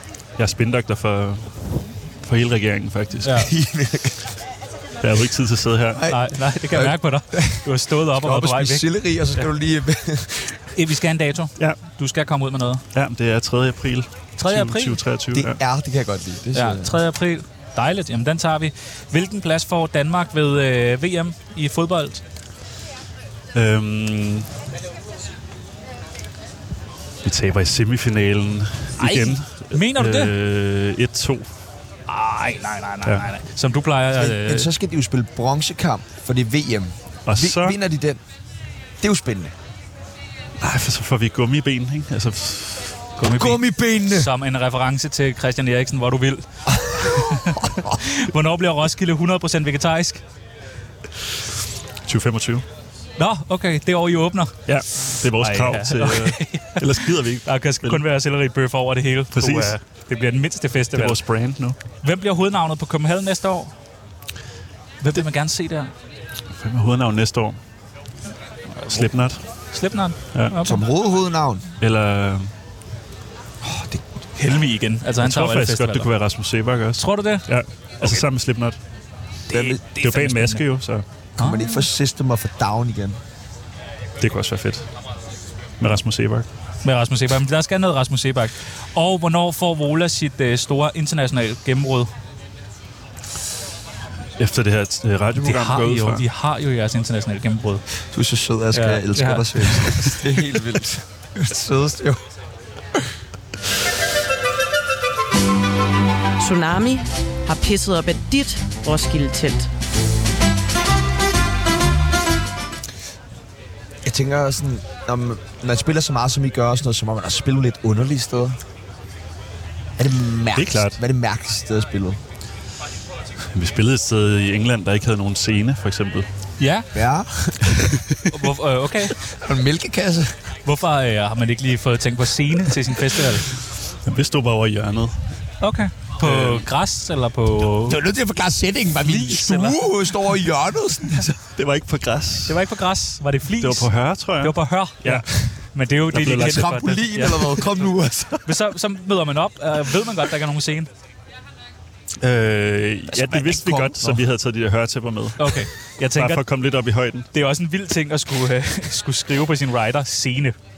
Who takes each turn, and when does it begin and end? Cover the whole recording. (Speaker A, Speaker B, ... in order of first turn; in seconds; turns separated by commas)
Speaker A: 0.4-3.5, Speaker B: 3.2-3.5, Speaker C: 3.3-4.2, Speaker A: 5.0-6.1, Speaker C: 5.9-10.7, Speaker B: 6.1-8.8, Speaker B: 10.7-12.8, Speaker A: 12.9-15.6, Speaker B: 14.4-15.0, Speaker C: 15.3-17.0, Speaker B: 16.5-22.2, Speaker A: 23.5-24.5, Speaker A: 27.2-31.5, Speaker B: 29.0-30.3, Speaker B: 32.1-34.7, Speaker C: 34.1-38.2, Speaker A: 37.2-37.8, Speaker C: 39.0-39.5, Speaker A: 40.6-43.1, Speaker B: 43.2-50.2, Speaker C: 43.3-44.3, Speaker C: 46.7-47.0, Speaker A: 52.0-52.6, Speaker B: 53.2-61.2, Speaker A: 54.7-58.0, Speaker A: 59.3-59.8, Speaker A: 60.9-61.8, Speaker B: 62.0-63.7, Speaker B: 65.0-65.9, Speaker A: 66.5-67.6, Speaker B: 68.8-70.8, Speaker A: 68.9-69.4, Speaker C: 70.6-71.6, Speaker A: 71.8-72.5, Speaker C: 73.6-74.0, Speaker B: 74.4-76.1, Speaker A: 75.2-78.8, Speaker B: 77.0-77.5, Speaker B: 79.5-80.6, Speaker C: 79.5-79.8, Speaker A: 79.9-81.0, Speaker B: 81.4-81.9, Speaker C: 81.4-83.2, Speaker A: 84.2-84.9, Speaker A: 85.8-86.5, Speaker B: 86.8-92.1, Speaker A: 94.4-96.2, Speaker B: 95.4-97.8, Speaker C: 98.1-102.2, Speaker B: 98.7-100.2, Speaker D: 106.4-109.7, Speaker C: 114.0-118.6, Speaker C: 120.0-122.2, Speaker A: 120.5-121.0, Speaker A: 123.5-126.3, Speaker B: 126.6-126.9, Speaker C: 126.9-128.0, Speaker A: 127.7-128.2, Speaker B: 128.3-129.2, Speaker C: 129.2-130.5, Speaker B: 130.6-133.5, Speaker A: 134.0-135.3, Speaker B: 135.6-138.0, Speaker A: 136.2-136.7, Speaker C: 137.9-141.4, Speaker B: 139.0-139.9, Speaker A: 141.6-142.6, Speaker B: 142.5-147.8, Speaker A: 143.6-145.5, Speaker A: 146.1-146.8, Speaker C: 146.4-148.5, Speaker B: 148.4-150.9, Speaker A: 152.2-157.3, Speaker B: 153.1-154.2, Speaker B: 155.4-156.4, Speaker B: 157.3-160.6